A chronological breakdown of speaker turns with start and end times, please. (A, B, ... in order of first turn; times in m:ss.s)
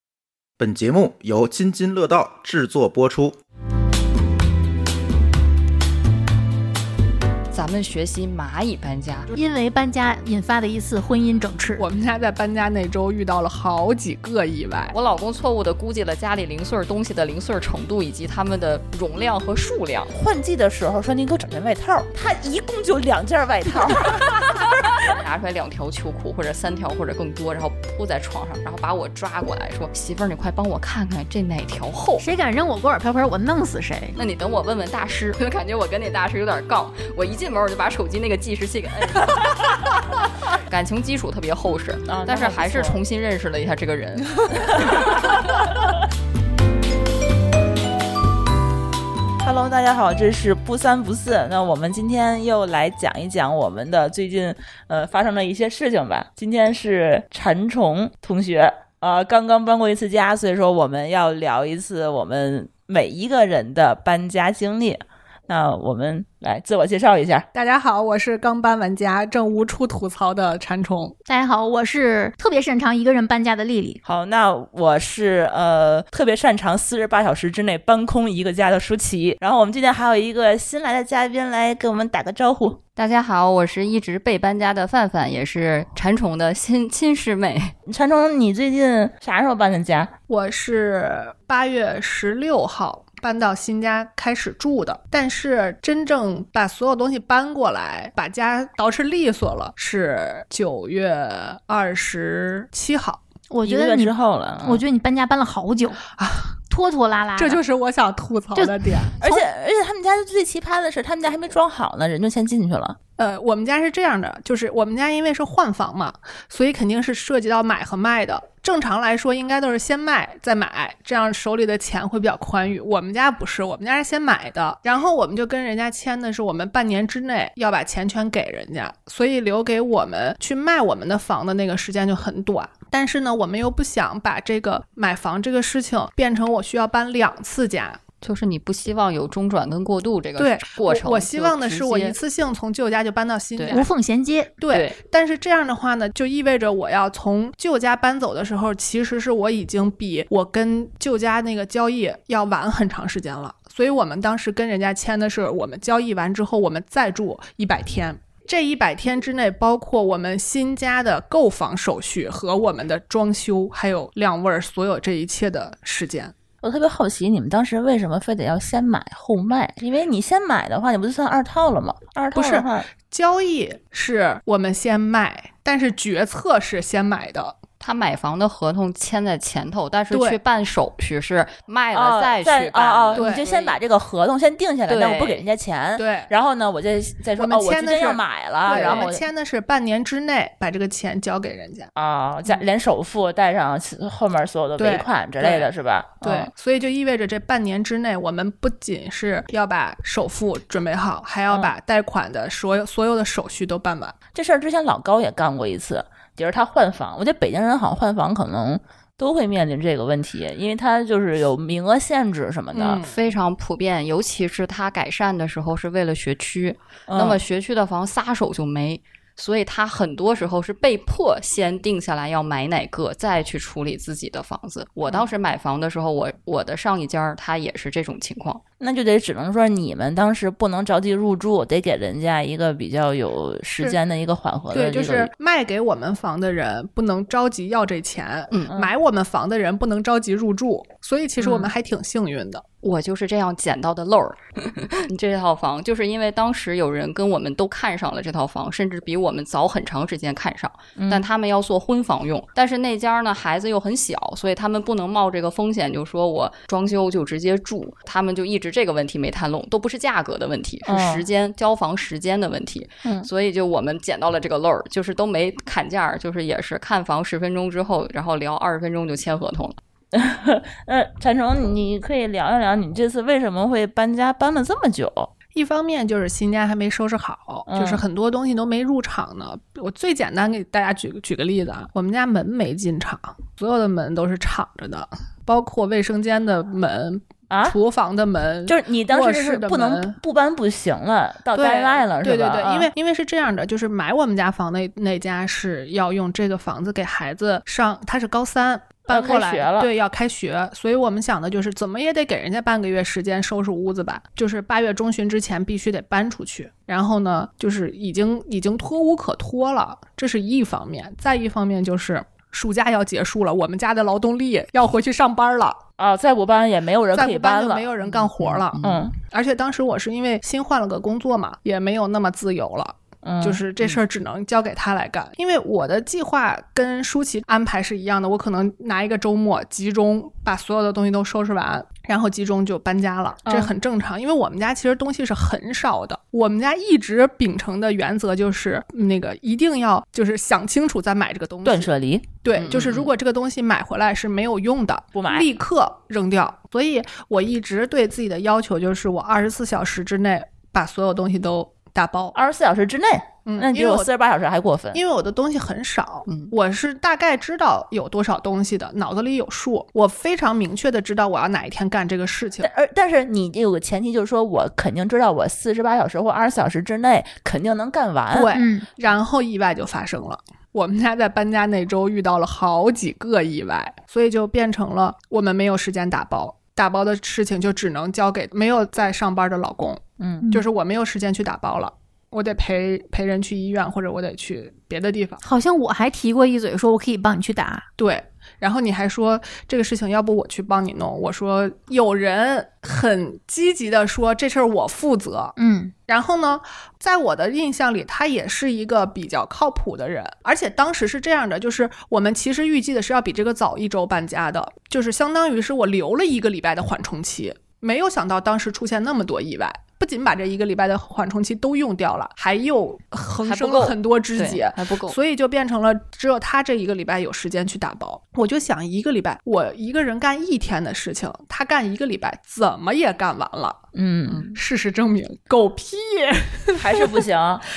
0:00.6-0:03.4 A
0:07.5-0:09.3 B
0:09.3-0:11.9 C
0:11.8-0:15.0 D
0:14.9-0:20.1 B
0:20.1-0:25.0 E
0:25.2-0:32.3 B
0:32.2-0:34.2 C
0:34.2-0:45.4 B
0:42.1-0:43.0 E
0:44.6-0:45.2 E
0:49.4-1:07.5 E
1:07.5-1:11.2 D
1:11.3-1:14.0 C
1:14.0-1:22.8 E
1:23.0-1:27.8 B
1:27.9-1:30.1 E
1:30.3-1:43.2 D
1:43.5-1:46.0 C
1:43.6-1:44.8 E
1:46.2-1:46.6 D
1:46.7-1:47.6 C
1:47.4-1:49.2 D
1:48.5-1:49.4 C
1:49.2-1:53.0 E
1:53.2-2:18.0 D
2:18.2-2:22.2 B
2:20.4-2:23.9 D
2:23.6-2:23.8 B
2:23.7-2:24.6 C
2:24.6-2:46.3 D
2:24.7-2:25.0 B
2:46.6-2:52.9 E
2:52.3-2:57.6 D
2:57.8-3:03.8 B
3:00.1-3:00.4 D
3:01.9-3:09.2 E
3:03.2-3:03.4 D
3:04.9-3:05.4 B
3:06.0-3:06.3 D
3:07.4-3:11.9 D
3:08.7-3:09.1 B
3:12.0-3:16.5 E
3:14.8-3:15.7 D
3:16.2-3:24.2 D
3:24.3-3:33.0 E
3:32.7-3:33.2 D
3:33.0-3:48.6 B
3:37.1-3:37.4 E
3:48.8-3:55.3 E
3:54.7-4:02.6 D
3:58.5-3:58.8 B
4:01.4-4:01.7 B
4:02.8-4:29.8 B
4:11.0-4:11.2 E
4:20.9-4:21.2 E
4:30.1-4:35.3 E
4:35.5-4:50.2 D
4:37.7-4:38.0 E
4:47.5-4:47.8 E
4:48.7-4:52.9 E
4:51.5-5:15.8 D
4:59.1-4:59.9 E
5:16.0-5:19.1 E
5:17.1-5:41.9 D
5:23.2-5:23.6 E
5:33.5-5:33.7 B
5:41.6-5:42.3 E
5:42.4-5:52.4 D
5:42.6-5:43.1 B
5:45.1-5:45.5 E
5:52.3-5:55.0 E
5:53.5-5:54.1 D
5:54.9-6:02.7 D
6:02.6-6:08.5 E
6:08.3-6:25.4 D
6:08.5-6:08.9 C
6:25.4-6:27.9 C
6:28.0-6:35.6 D
6:35.6-6:35.9 C
6:36.1-7:03.8 D
6:53.4-6:55.2 B
7:04.0-7:04.4 E
7:04.5-7:07.2 D
7:06.7-7:07.6 E